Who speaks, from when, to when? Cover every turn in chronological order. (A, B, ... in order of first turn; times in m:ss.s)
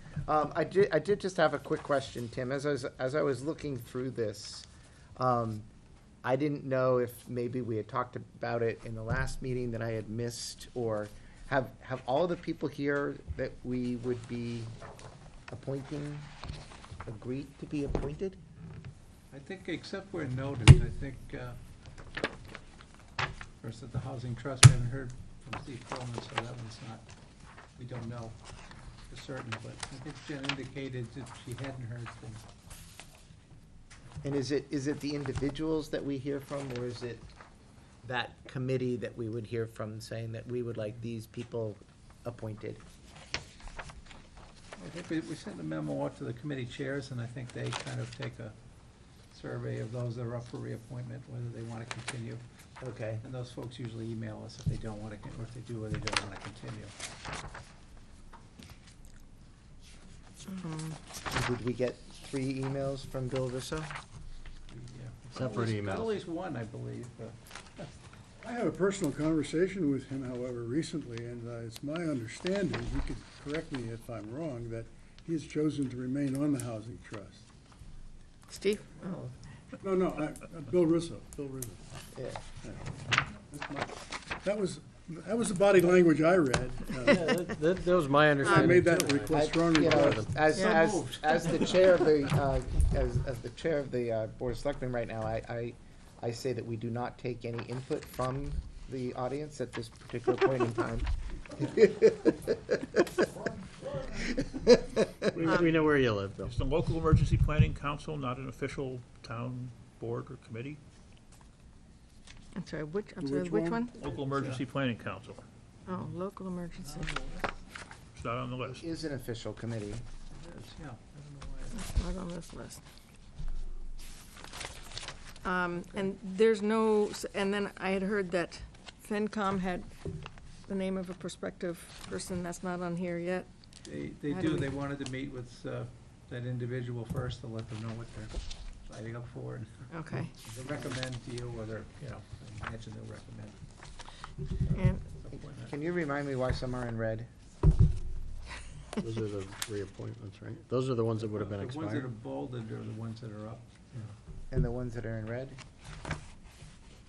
0:00.3-0:05.7 A
0:06.2-0:14.7 A
0:15.5-0:16.3 A
0:17.1-0:18.4 A
0:19.3-0:21.6 B
0:23.6-0:27.0 B
0:27.8-0:28.4 B
0:29.1-0:32.4 B
0:34.2-0:37.3 A
0:38.0-0:42.8 A
0:44.8-0:48.6 B
0:49.3-0:52.4 B
0:52.8-0:53.2 A
0:53.2-0:56.9 B
1:00.5-1:01.0 C
1:01.3-1:03.9 A
1:04.7-1:07.9 B
1:05.3-1:06.1 D
1:08.4-1:17.5 E
1:18.5-1:19.3 C
1:19.8-1:21.8 E
1:22.2-1:22.4 A
1:22.6-1:22.9 E
1:23.5-1:27.4 E
1:27.0-1:30.3 D
1:28.4-1:30.3 E
1:28.4-1:28.8 C
1:29.3-1:43.1 A
1:30.5-1:31.9 B
1:30.5-1:31.0 C
1:44.1-1:45.5 A
1:45.4-1:46.6 D
1:46.4-1:50.8 F
1:52.5-1:54.0 C
1:53.2-1:53.9 E
1:54.0-1:55.4 F
1:54.1-1:54.6 B
1:55.9-1:57.1 C
1:55.9-1:56.2 B
1:56.7-1:57.5 B
1:58.2-1:58.8 F
1:58.6-2:00.0 A
2:00.3-2:01.8 B
2:01.7-2:02.8 C
2:05.4-2:10.2 C
2:10.7-2:13.5 C
2:13.8-2:23.6 B
2:14.3-2:14.7 C
2:19.9-2:20.3 C
2:24.7-2:25.7 B
2:24.7-2:25.0 C
2:25.6-2:27.3 A
2:29.0-2:32.1 D
2:31.2-2:34.1 B
2:34.5-2:35.6 A